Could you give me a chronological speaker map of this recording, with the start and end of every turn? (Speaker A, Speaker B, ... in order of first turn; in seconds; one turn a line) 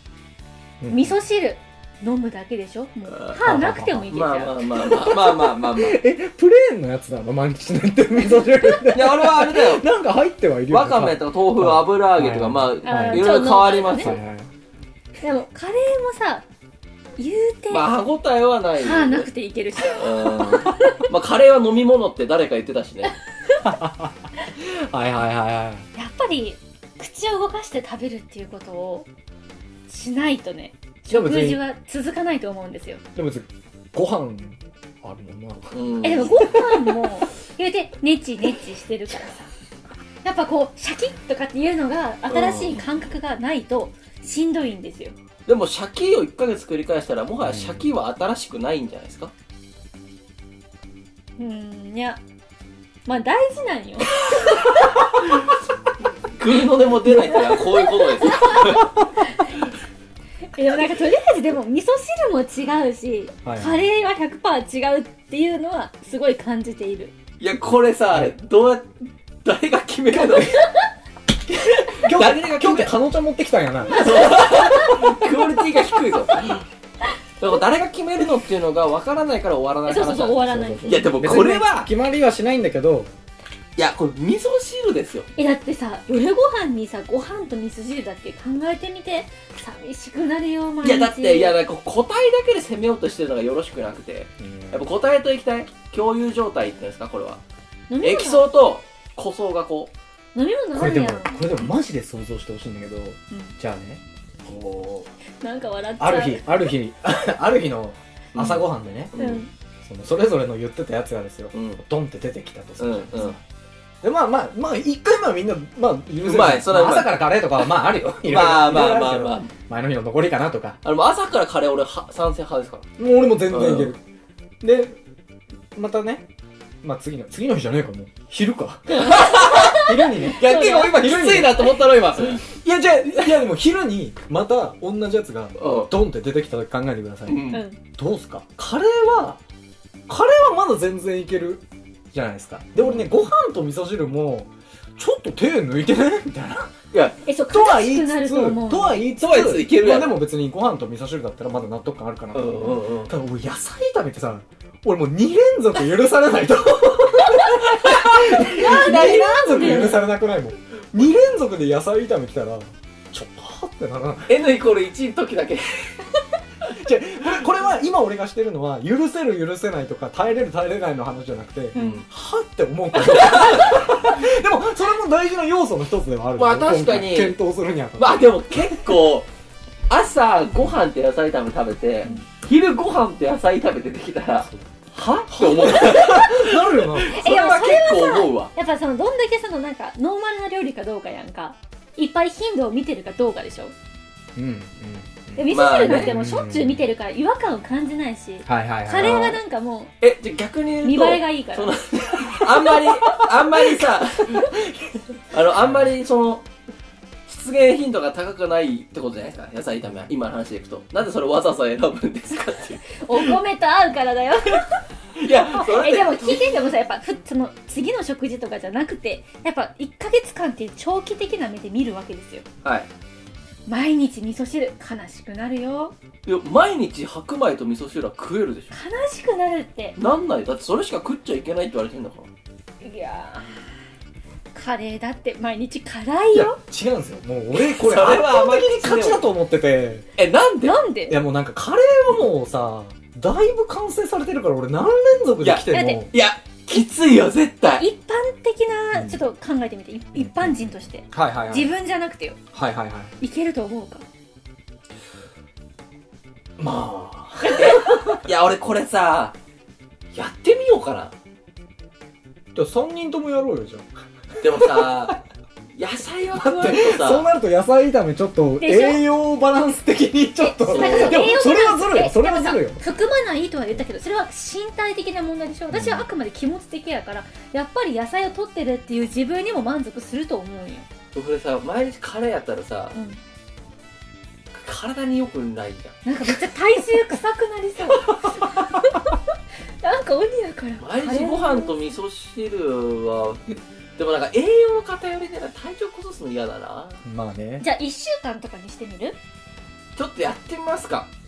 Speaker A: 0.8-1.2
Speaker B: 0.9-4.6
Speaker C: 3.1-3.4
Speaker A: 3.4-4.1
Speaker C: 4.1-6.0
Speaker A: 4.9-14.5
Speaker C: 8.9-9.8
Speaker C: 10.7-14.2
Speaker B: 12.8-14.2
Speaker B: 15.2-16.4
Speaker B: 17.2-18.0
Speaker C: 17.7-19.3
Speaker B: 18.8-21.0
Speaker C: 19.9-23.1
Speaker A: 23.6-25.9
Speaker B: 26.0-29.1
Speaker B: 29.9-33.0
Speaker A: 31.1-31.6
Speaker A: 33.1-36.5
Speaker C: 35.7-36.4
Speaker B: 36.0-39.5
Speaker B: 40.2-45.1
Speaker C: 42.3-42.8
Speaker C: 45.5-49.3
Speaker A: 47.4-47.9
Speaker B: 51.4-52.2
Speaker B: 53.0-55.0
Speaker C: 56.4-58.9
Speaker B: 57.5-58.8
Speaker B: 60.5-67.1
Speaker A: 63.4-63.8
Speaker C: 67.4-70.6
Speaker A: 71.5-75.1
Speaker C: 71.7-73.0
Speaker C: 73.9-76.6
Speaker C: 77.4-81.9
Speaker B: 79.8-81.1
Speaker A: 80.4-83.1
Speaker C: 83.8-85.3
Speaker B: 85.4-91.6
Speaker C: 90.8-97.4
Speaker A: 94.4-94.8
Speaker B: 97.9-98.5
Speaker C: 98.0-99.9
Speaker B: 100.3-101.4
Speaker A: 100.7-105.1
Speaker B: 105.4-106.6
Speaker A: 106.0-109.1
Speaker C: 108.3-109.4
Speaker B: 109.2-109.5
Speaker A: 109.8-113.4
Speaker C: 111.5-111.8
Speaker C: 112.8-113.3
Speaker A: 114.0-120.8
Speaker C: 116.2-119.5
Speaker C: 120.8-122.9
Speaker A: 123.0-124.0
Speaker C: 123.5-123.9
Speaker A: 124.6-125.0
Speaker A: 125.7-126.3
Speaker A: 126.8-139.4
Speaker C: 128.9-132.4
Speaker B: 129.1-131.1
Speaker C: 135.6-135.9
Speaker C: 137.3-137.6
Speaker B: 137.5-137.8
Speaker A: 140.1-146.7
Speaker B: 147.2-149.0
Speaker A: 147.5-164.3
Speaker C: 149.2-150.2
Speaker C: 152.3-153.1
Speaker B: 158.3-160.0
Speaker C: 164.3-165.9
Speaker A: 166.7-178.3
Speaker C: 171.7-172.0
Speaker B: 171.7-172.0
Speaker C: 176.4-177.3
Speaker C: 178.0-179.3
Speaker C: 179.9-188.5
Speaker A: 185.3-187.2
Speaker B: 187.1-193.7
Speaker A: 194.3-196.8
Speaker B: 195.3-199.9
Speaker C: 195.5-196.2
Speaker A: 198.4-199.4
Speaker C: 200.0-204.5
Speaker B: 200.8-201.8
Speaker C: 205.3-206.5
Speaker C: 207.3-213.3
Speaker B: 213.0-222.4
Speaker C: 215.2-216.5
Speaker C: 222.6-222.9
Speaker B: 223.7-225.9
Speaker C: 226.2-228.8
Speaker B: 228.7-230.0
Speaker C: 230.0-232.3
Speaker B: 232.8-233.6
Speaker B: 234.5-236.6
Speaker A: 236.3-240.1
Speaker C: 237.5-239.2
Speaker C: 240.2-240.8
Speaker B: 240.6-241.2
Speaker A: 241.1-246.1
Speaker C: 245.4-247.8
Speaker B: 245.7-246.1
Speaker B: 247.8-252.4
Speaker A: 248.9-249.2
Speaker A: 250.1-250.6
Speaker A: 251.1-251.7
Speaker A: 252.5-253.1
Speaker B: 253.2-254.0
Speaker A: 256.6-258.2
Speaker B: 257.4-258.0
Speaker C: 257.6-259.4
Speaker C: 260.1-261.1
Speaker A: 262.5-263.9
Speaker C: 264.4-265.2
Speaker A: 264.4-265.1
Speaker C: 265.8-267.3
Speaker A: 266.4-272.8
Speaker B: 268.6-269.0
Speaker B: 270.4-280.9
Speaker C: 270.7-271.4
Speaker A: 275.7-276.1
Speaker C: 281.1-282.9
Speaker C: 284.5-286.0
Speaker B: 286.0-289.2
Speaker B: 289.8-291.7
Speaker C: 290.8-297.0
Speaker A: 297.0-297.6
Speaker B: 297.6-299.2
Speaker C: 299.9-301.1